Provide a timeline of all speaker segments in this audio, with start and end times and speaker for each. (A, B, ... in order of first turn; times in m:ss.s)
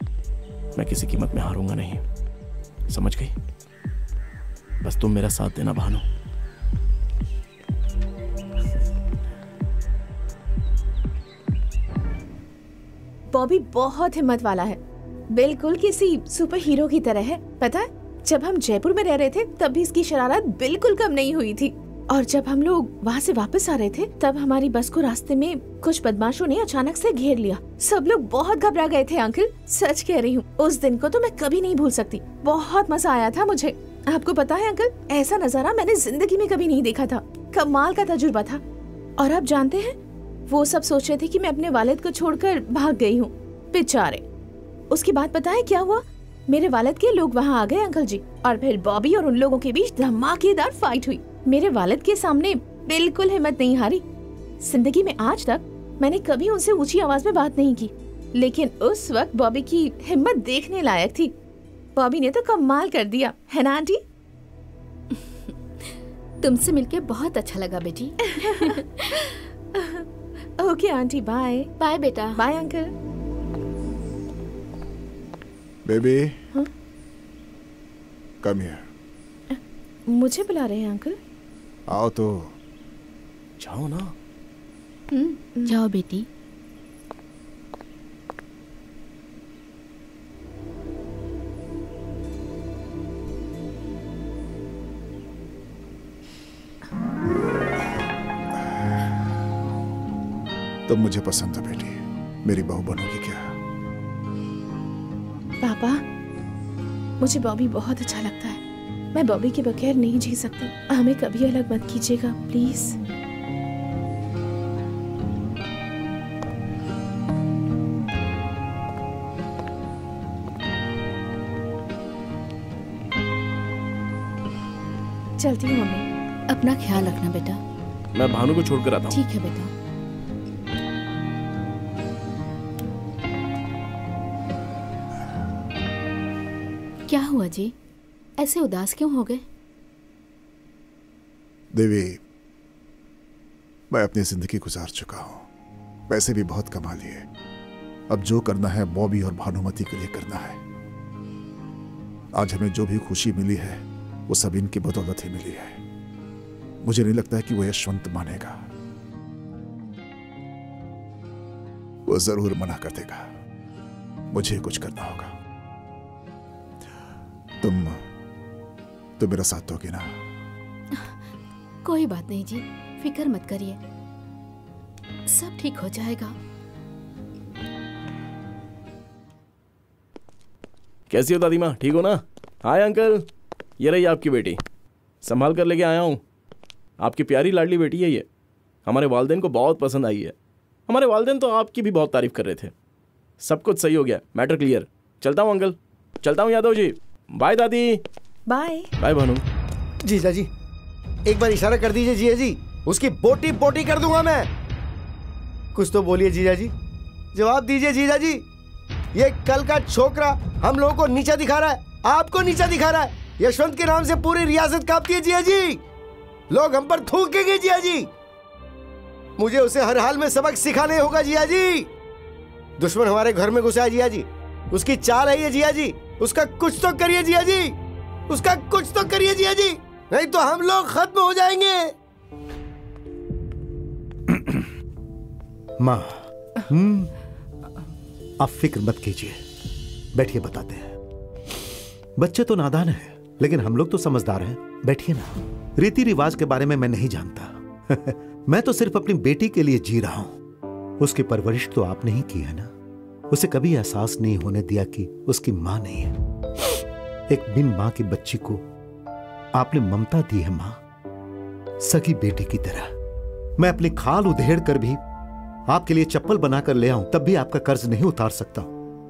0:00.8-0:02.0 A
0:02.9-0:03.3 A
0:04.8-0:06.0 A
0:13.3-0:14.8 B
0:15.3-0:38.6 B
0:39.2-0:44.2 B
0:44.9-0:54.0 B
0:54.6-1:01.3 B
1:02.0-1:04.0 B
1:06.4-1:08.7 C
1:08.4-1:08.8 B
1:09.8-1:10.0 B
1:10.6-1:11.7 B
1:11.8-1:12.3 C
1:12.4-1:12.9 B
1:15.8-1:16.4 D
1:18.4-1:18.8 D
1:19.5-1:21.2 B
1:21.9-1:22.5 D
1:23.6-1:24.1 A
1:25.1-1:25.8 B
1:25.7-1:26.3 C
1:40.9-1:43.6 D
1:45.6-1:46.0 B
1:47.2-1:48.6 B
1:49.1-1:53.0 B
2:05.4-2:06.0 B
2:06.5-2:07.6 C
2:08.1-2:09.2 A
2:09.1-2:09.7 C
2:17.1-2:17.7 C
2:18.4-2:19.4 C
2:21.7-2:22.2 D
2:23.9-2:25.5 D
2:26.1-2:27.3 D
2:28.1-2:30.6 D
2:32.3-2:35.8 D
2:36.8-2:38.6 D
2:42.1-2:43.3 D
2:44.3-2:45.3 D
2:47.6-2:48.0 D
2:49.2-2:50.2 D
2:51.8-2:53.8 C
2:55.3-2:56.4 C
3:01.1-3:03.2 A
3:03.8-3:04.6 A
3:05.2-3:06.2 A
3:07.0-3:08.2 A
3:08.9-3:10.3 A
3:10.9-3:12.7 A
3:13.4-3:18.0 A
3:18.5-3:18.9 B
3:19.0-3:19.4 A
3:20.0-3:20.5 E
3:21.3-3:24.5 E
3:25.8-3:26.7 E
3:27.3-3:28.4 E
3:29.2-3:35.8 E
3:36.5-3:38.1 E
3:39.4-3:41.9 E
3:42.8-3:47.8 E
3:48.3-3:51.9 E
3:54.3-3:54.6 F
3:55.8-3:57.1 F
3:58.4-3:59.4 F
4:00.2-4:01.0 F
4:02.2-4:10.4 F
4:11.0-4:12.7 F
4:13.3-4:16.2 F
4:17.3-4:18.6 F
4:19.5-4:20.8 F
4:21.8-4:22.9 F
4:23.6-4:25.0 F
4:25.7-4:28.7 F